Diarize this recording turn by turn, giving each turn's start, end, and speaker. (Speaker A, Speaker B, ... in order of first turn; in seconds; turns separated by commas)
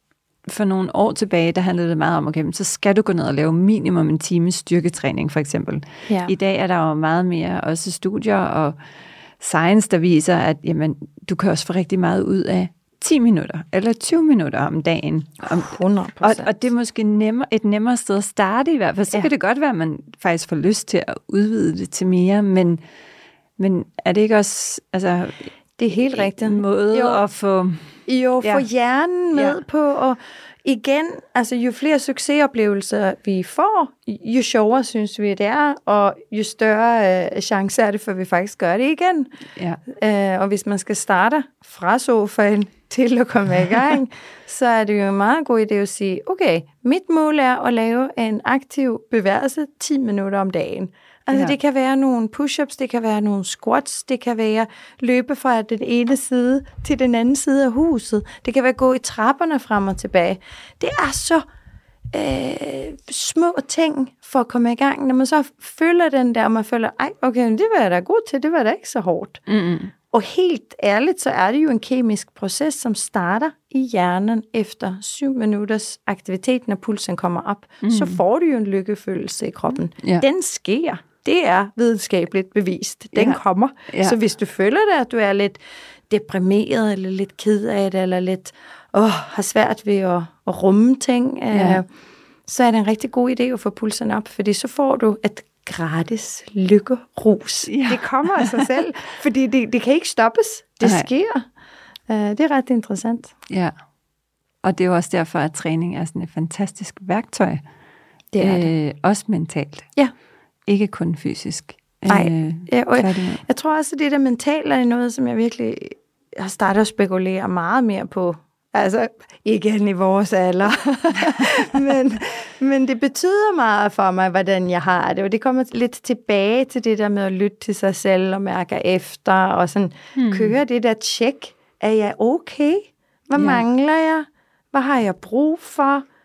Speaker A: 0.5-8.8, Speaker A: 9.4-22.8, Speaker B: 15.5-16.5, Speaker A: 23.6-25.5, Speaker B: 25.8-27.2, Speaker A: 26.1-27.9, Speaker B: 28.1-39.3, Speaker B: 39.9-61.4, Speaker B: 62.1-69.4, Speaker A: 69.5-69.9, Speaker B: 70.1-85.6, Speaker A: 77.8-78.2, Speaker A: 83.9-84.2, Speaker B: 86.1-91.8, Speaker A: 91.5-91.8, Speaker B: 92.5-101.5, Speaker A: 97.7-98.6, Speaker A: 100.8-101.1, Speaker B: 102.1-103.3, Speaker A: 104.6-107.6, Speaker B: 108.3-108.7, Speaker A: 108.4-109.9, Speaker A: 110.7-113.4, Speaker B: 112.1-136.0, Speaker A: 130.2-130.5, Speaker A: 133.4-133.6